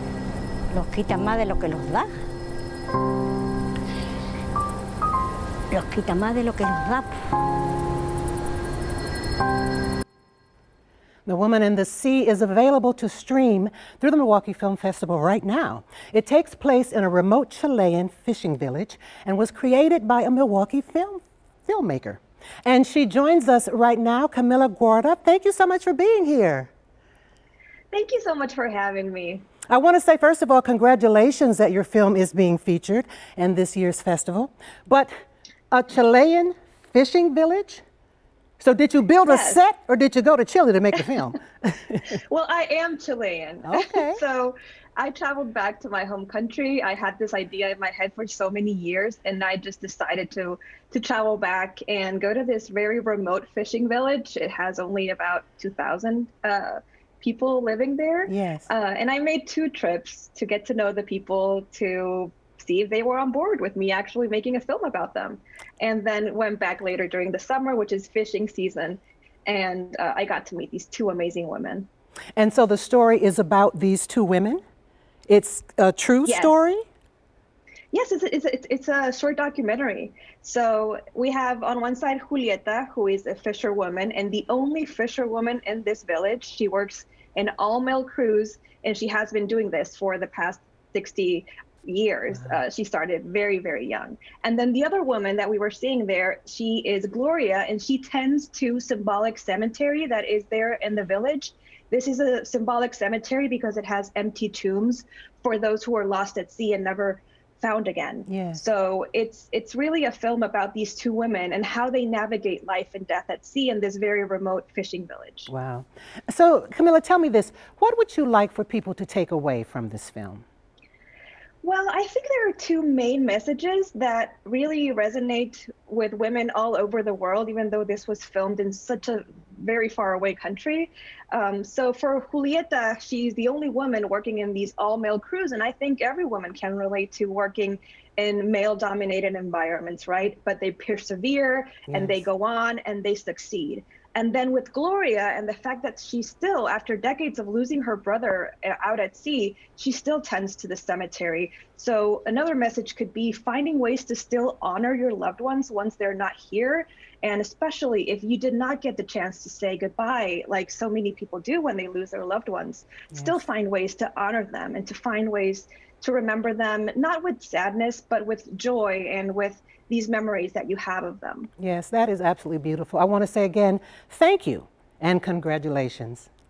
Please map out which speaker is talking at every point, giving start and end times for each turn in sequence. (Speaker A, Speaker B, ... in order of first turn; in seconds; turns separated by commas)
Speaker A: 0.7-2.1, Speaker A: 5.7-7.1, Speaker B: 11.3-26.7, Speaker C: 27.9-29.5, Speaker B: 29.7-35.1, Speaker B: 35.7-37.8, Speaker B: 38.6-42.0, Speaker C: 39.2-39.6, Speaker C: 42.3-71.9, Speaker B: 43.7-44.2, Speaker B: 58.3-58.7, Speaker B: 72.4-74.6, Speaker B: 75.3-76.8, Speaker C: 76.2-76.5, Speaker C: 77.9-115.5, Speaker B: 108.3-108.6, Speaker B: 115.5-120.4, Speaker C: 121.6-171.5, Speaker B: 141.9-142.2, Speaker B: 163.1-163.4, Speaker B: 171.6-176.3